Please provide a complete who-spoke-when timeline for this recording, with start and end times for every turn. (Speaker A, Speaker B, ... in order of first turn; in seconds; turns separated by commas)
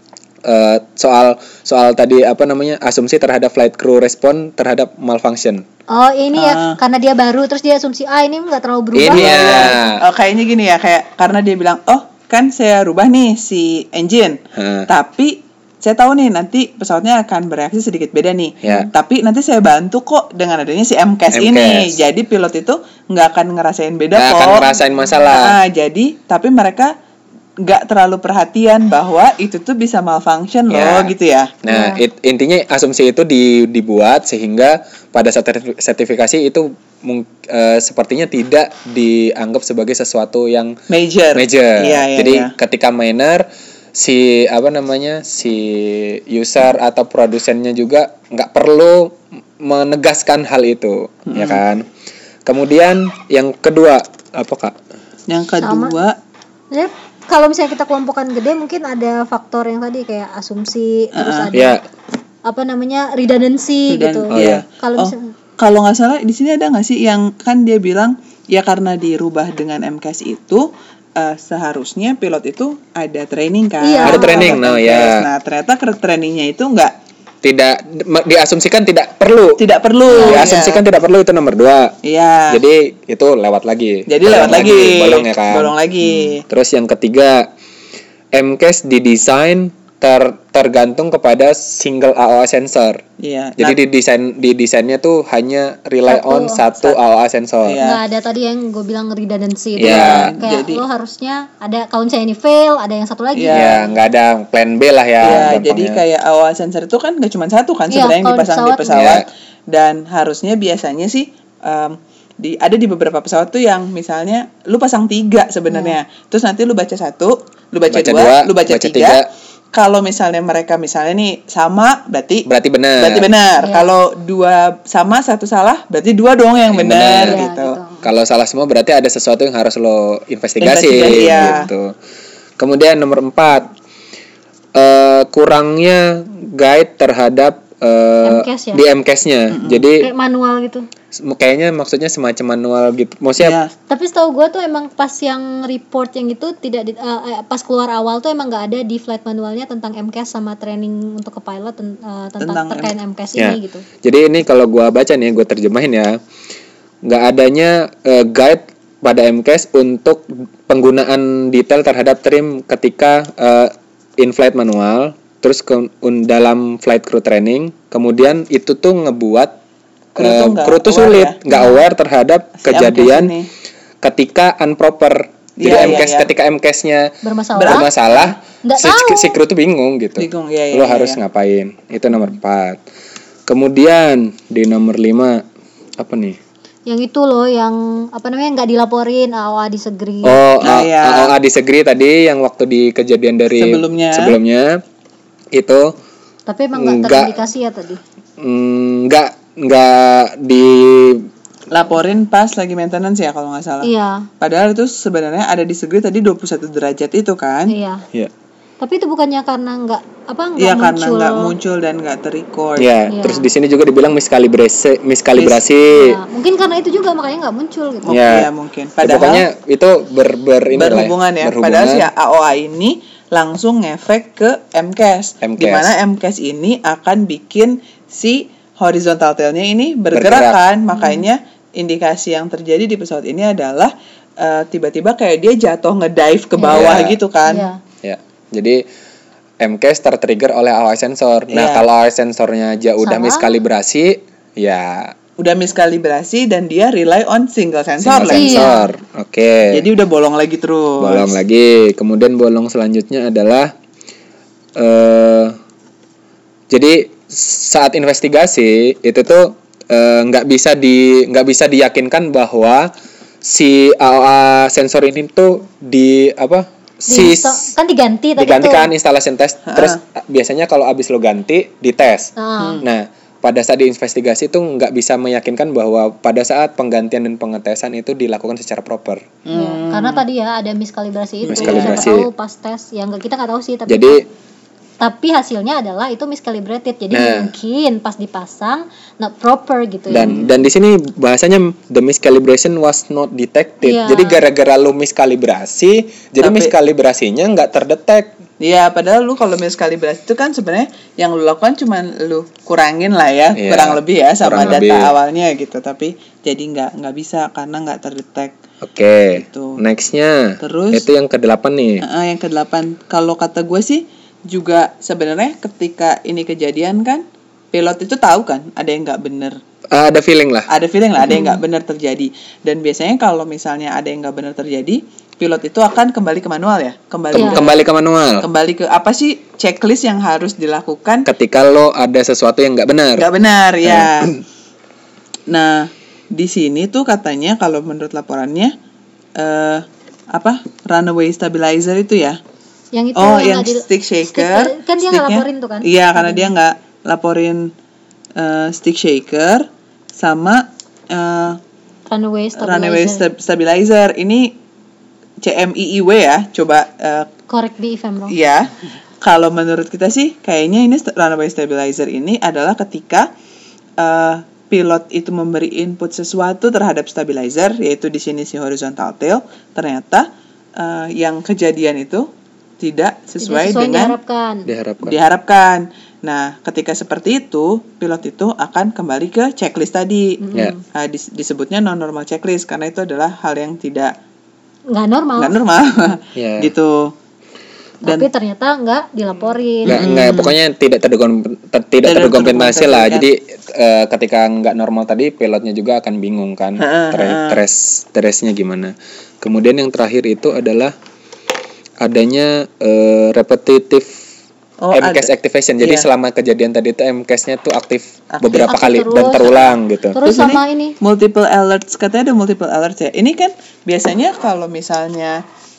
Speaker A: 0.5-5.7, Speaker B: 5.9-9.8, Speaker C: 6.4-6.8, Speaker A: 8.9-10.0, Speaker C: 9.1-24.7, Speaker A: 14.6-14.9, Speaker A: 18.6-18.9, Speaker A: 21.3-22.0, Speaker A: 24.1-25.6, Speaker C: 25.3-26.9, Speaker C: 27.6-31.5, Speaker A: 30.7-31.1, Speaker A: 31.6-40.8, Speaker B: 31.7-32.0, Speaker C: 40.9-42.5, Speaker A: 41.3-51.9, Speaker C: 51.3-51.6, Speaker A: 52.5-54.8, Speaker C: 55.3-56.2, Speaker B: 55.6-56.0, Speaker B: 56.7-61.8, Speaker C: 61.1-61.5, Speaker A: 61.5-61.8, Speaker B: 62.5-65.3, Speaker C: 63.9-76.9, Speaker A: 64.3-64.6, Speaker B: 73.8-74.6, Speaker A: 74.0-75.3, Speaker A: 77.4-82.0, Speaker C: 79.6-80.8, Speaker B: 80.1-80.5, Speaker C: 82.0-82.6, Speaker A: 82.5-85.8, Speaker C: 84.1-86.5, Speaker B: 86.0-86.4, Speaker A: 86.5-87.5, Speaker A: 88.3-93.0, Speaker C: 93.2-93.8, Speaker A: 93.6-97.8, Speaker B: 96.1-96.6, Speaker C: 97.6-98.0, Speaker B: 97.8-103.8, Speaker A: 99.8-100.3, Speaker C: 99.8-100.8, Speaker C: 103.3-103.8, Speaker A: 103.5-106.0, Speaker C: 105.2-119.2, Speaker B: 107.9-109.2, Speaker A: 108.9-109.3, Speaker B: 115.7-116.0, Speaker A: 117.9-119.3, Speaker C: 119.7-122.5, Speaker A: 122.5-123.3, Speaker C: 123.0-127.8, Speaker B: 123.6-123.9, Speaker A: 126.7-127.4, Speaker B: 127.1-128.1, Speaker A: 128.0-131.9, Speaker C: 130.6-131.7, Speaker B: 131.2-131.7, Speaker A: 132.6-133.7, Speaker A: 134.8-140.1, Speaker B: 138.2-138.8, Speaker C: 139.5-139.9, Speaker B: 140.0-140.9, Speaker A: 141.1-143.6, Speaker C: 143.4-143.7, Speaker B: 143.9-153.8, Speaker C: 152.4-152.9, Speaker A: 153.4-156.2, Speaker A: 157.1-169.6, Speaker C: 170.2-171.4, Speaker A: 170.2-173.3, Speaker B: 171.5-171.8, Speaker C: 172.6-173.5, Speaker A: 174.0-182.8, Speaker C: 175.6-176.3, Speaker B: 177.2-177.9, Speaker C: 177.6-178.4, Speaker B: 178.6-179.4, Speaker C: 180.2-181.2, Speaker A: 183.5-185.4, Speaker A: 186.0-186.4, Speaker B: 186.9-190.4, Speaker A: 190.2-194.8, Speaker C: 190.6-191.3, Speaker C: 193.5-194.4, Speaker A: 195.5-195.9, Speaker B: 196.5-198.0, Speaker A: 196.8-197.3, Speaker A: 198.4-201.3, Speaker C: 201.7-207.7, Speaker B: 203.8-204.3, Speaker B: 207.7-208.1, Speaker B: 208.8-211.5, Speaker C: 210.6-212.9, Speaker A: 212.8-216.2, Speaker B: 213.1-213.5, Speaker C: 215.4-215.7, Speaker B: 215.9-218.2, Speaker C: 218.1-219.4, Speaker A: 218.1-218.5, Speaker A: 219.0-222.1, Speaker C: 220.7-237.7, Speaker A: 225.4-225.9, Speaker A: 230.1-230.6, Speaker B: 230.9-231.3, Speaker B: 236.6-236.8, Speaker A: 236.6-237.2, Speaker B: 237.5-237.8, Speaker A: 238.0-238.9, Speaker A: 239.6-245.2, Speaker C: 241.5-241.8, Speaker B: 243.0-243.6, Speaker C: 245.4-248.8, Speaker A: 248.0-249.8, Speaker B: 248.3-248.9, Speaker C: 249.7-251.4, Speaker A: 251.0-253.7, Speaker A: 254.8-255.6, Speaker A: 256.7-262.9, Speaker A: 263.4-267.7, Speaker B: 267.1-268.9, Speaker A: 268.4-279.3, Speaker C: 269.7-270.0, Speaker B: 272.4-272.8, Speaker C: 279.4-280.2, Speaker B: 279.5-284.2, Speaker C: 281.5-282.1, Speaker A: 281.5-282.3, Speaker A: 283.9-284.3, Speaker B: 285.0-290.5, Speaker A: 287.1-287.5, Speaker A: 290.1-298.3, Speaker B: 293.8-294.4, Speaker C: 296.4-296.8, Speaker C: 298.6-308.6, Speaker A: 303.6-305.1, Speaker A: 308.8-312.1, Speaker C: 309.3-309.8, Speaker C: 310.6-311.1, Speaker C: 312.0-319.6, Speaker A: 319.9-321.5, Speaker C: 320.7-327.8, Speaker A: 327.3-328.5, Speaker B: 327.3-327.6, Speaker C: 328.4-331.3, Speaker A: 331.2-333.3, Speaker C: 333.2-334.4, Speaker A: 333.8-334.4, Speaker C: 335.5-338.8, Speaker C: 339.4-342.4, Speaker B: 342.9-346.5, Speaker C: 343.2-347.7, Speaker C: 348.4-351.6, Speaker B: 352.1-353.2, Speaker C: 352.6-354.6, Speaker C: 355.4-357.3, Speaker B: 357.5-358.4, Speaker C: 358.3-363.3, Speaker C: 364.0-372.3, Speaker C: 372.8-374.2, Speaker B: 373.4-374.7, Speaker A: 374.7-375.2, Speaker C: 375.0-380.4, Speaker B: 380.4-380.8, Speaker C: 380.9-384.1, Speaker B: 384.9-385.6, Speaker C: 385.4-387.1, Speaker A: 386.4-386.7, Speaker B: 388.0-390.2, Speaker A: 389.9-400.9, Speaker C: 389.9-390.6, Speaker C: 392.1-393.3, Speaker C: 396.8-397.6, Speaker A: 402.0-404.2, Speaker C: 404.8-406.1, Speaker A: 404.9-410.2, Speaker C: 408.3-415.4, Speaker B: 408.6-409.5, Speaker B: 410.1-411.0